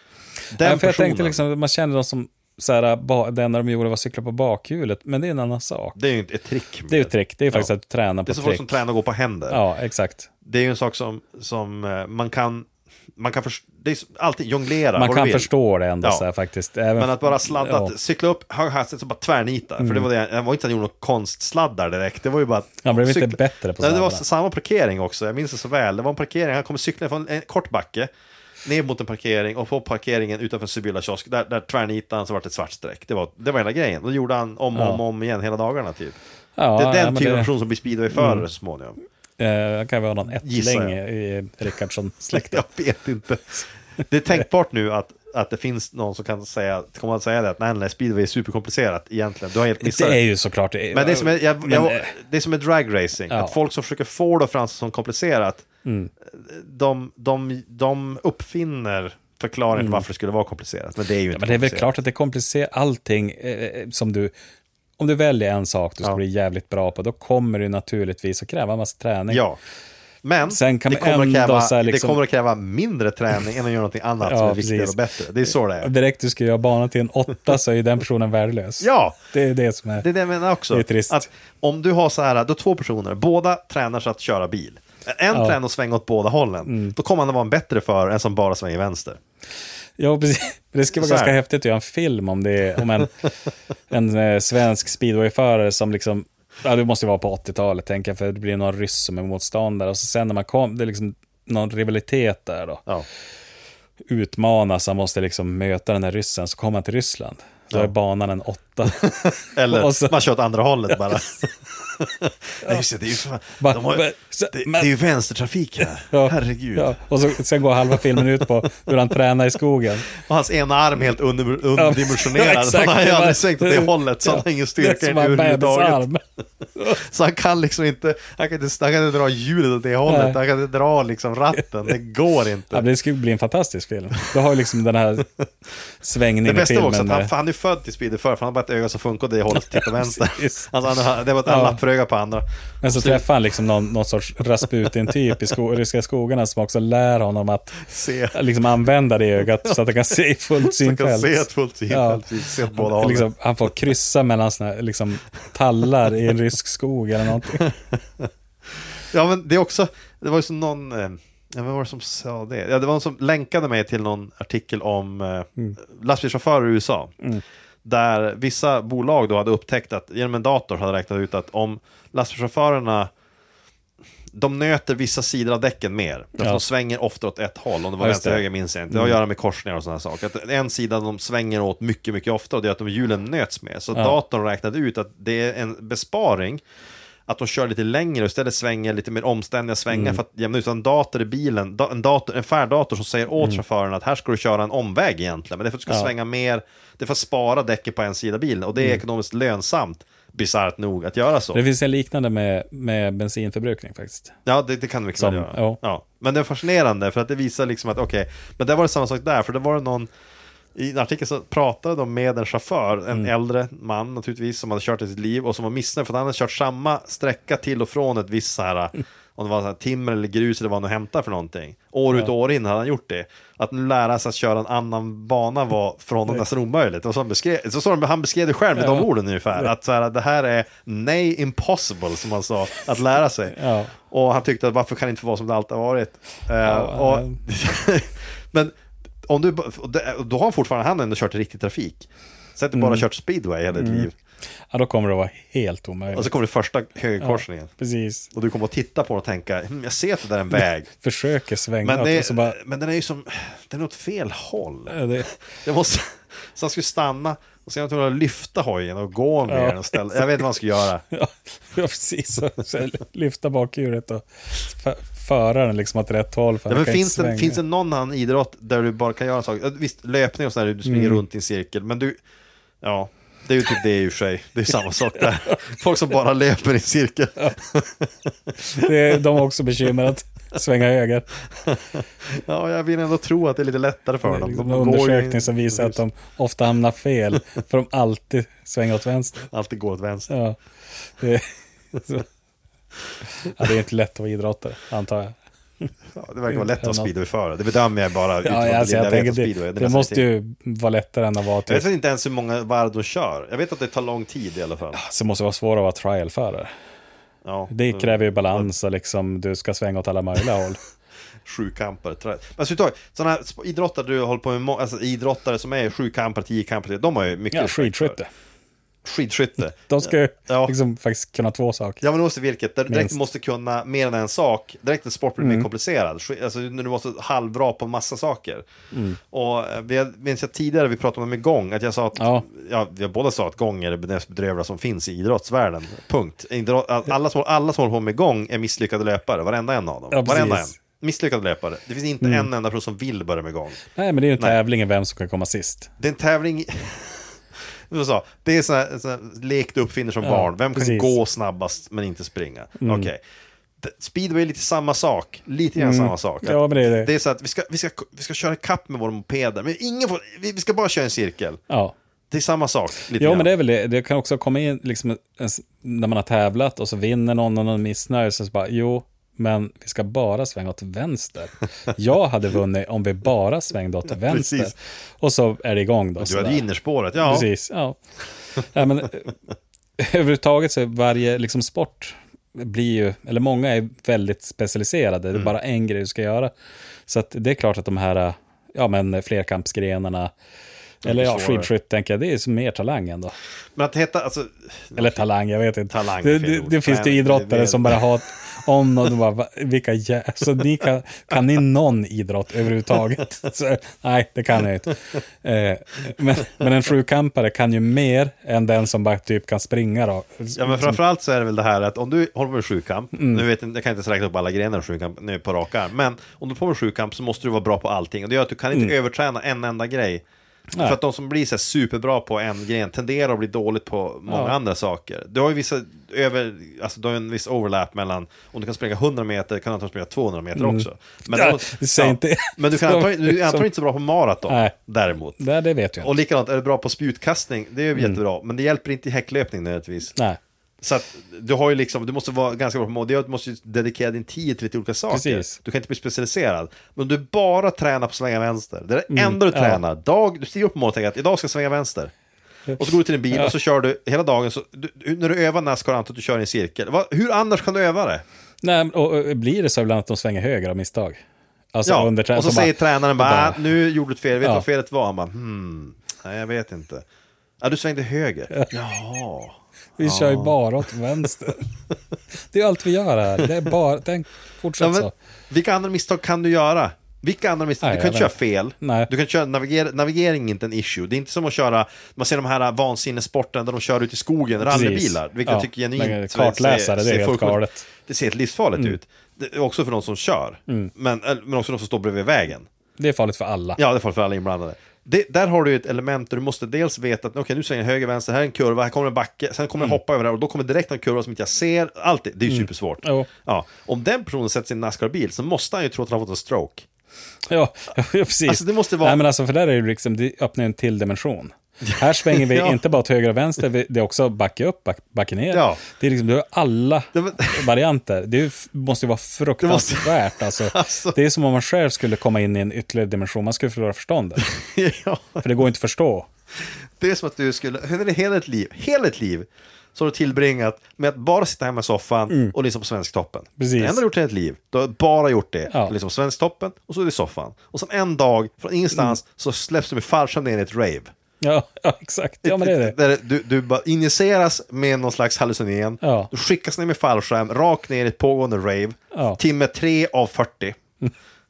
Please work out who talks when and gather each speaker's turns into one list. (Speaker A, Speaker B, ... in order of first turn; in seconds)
Speaker A: 0.5-1.4, 6.0-7.7, 8.3-9.6, 10.4-15.5, 17.0-28.1, 28.6-36.2, 36.8-39.0, 40.4-41.0, 42.3-50.2, 50.9-55.7, 56.3-61.9, 69.3-69.6, 70.2-75.9, 78.8-79.2, 80.0-89.2, 90.9-91.4, 92.8-93.1, 108.9-117.0, 117.9-118.5, 120.1-126.1, 126.8-132.9, 136.4-143.2, 144.8-145.1, 147.9-148.4, 150.6-153.3, 157.5-167.2, 167.8-173.1, 174.3-186.6, 187.3-201.6, 204.5-210.1, 210.8-238.8, 239.3-244.1, 246.1-247.7, 248.3-250.9, 251.8-261.0, 266.7-272.2, 272.8-279.2, 281.6-286.0, 289.5-290.3, 296.1-300.3, 301.7-305.0, 307.4-308.7, 311.4-318.2, 319.1-320.7, 322.0-328.6, 329.3-343.8, 346.0-347.4, 347.9-353.2, 353.8-361.6, 362.3-363.5, 374.1-374.7, 376.2-377.5, 391.0-391.7, 393.8-395.2, 395.9-398.0, 410.6-420.2, 420.8-435.4, 436.0-440.1, 440.8-452.1, 452.8-458.2, 461.9-467.1, 467.6-470.6, 474.8-492.7, 493.8-506.9, 508.5-509.2, 511.8-512.8, 515.5-515.8, 517.1-517.6, 519.6-521.2, 524.4-525.5, 526.6-541.1, 542.4-550.8
Speaker B: 0.6-6.0, 6.9-8.8, 9.5-10.3, 15.0-17.9, 19.8-20.1, 22.8-24.2, 34.8-35.0, 36.6-37.5, 38.1-38.5, 39.4-42.6, 49.8-52.2, 53.3-53.6, 55.9-56.1, 59.7-60.0, 61.3-64.3, 65.0-69.4, 70.5-72.2, 74.2-75.0, 75.8-80.1, 80.7-81.3, 86.7-87.0, 90.0-93.2, 93.9-102.8, 104.1-110.2, 113.6-114.9, 116.1-120.1, 121.8-126.2, 126.8-127.0, 130.1-130.4, 132.7-135.3, 136.0-137.3, 139.5-140.7, 141.4-141.8, 142.8-157.7, 178.0-179.2, 189.9-190.2, 201.5-204.4, 205.2-205.8, 228.8-229.7, 233.6-233.9, 236.6-237.4, 242.7-243.1, 243.7-244.1, 244.7-246.3, 247.2-248.3, 251.0-252.6, 254.9-255.3, 259.5-260.5, 261.1-267.6, 270.9-271.2, 278.6-281.3, 284.2-289.5, 290.3-292.2, 293.4-295.9, 296.5-297.1, 298.4-301.9, 304.9-306.7, 307.7-310.8, 317.5-318.3, 319.9-322.0, 322.9-323.2, 325.4-325.7, 328.9-329.2, 332.2-332.5, 340.1-340.7, 342.2-342.5, 343.9-345.9, 350.2-351.2, 352.8-353.1, 355.8-357.1, 363.2-376.6, 377.2-378.0, 378.5-379.3, 380.0-386.5, 387.1-390.3, 391.0-393.4, 395.0-411.0, 413.1-413.4, 420.7-421.0, 424.3-424.6, 430.6-433.7, 434.5-434.7, 435.4-436.1, 445.1-445.6, 449.1-449.8, 452.7-453.5, 458.6-461.2, 461.7-463.7, 470.0-471.7, 472.5-475.1, 477.8-479.1, 484.6-487.9, 493.0-493.8, 502.5-503.3, 507.5-524.5, 525.4-526.3, 532.3-532.5, 533.6-534.0, 535.7-535.9, 541.4-543.0, 546.0-546.3, 549.1-549.4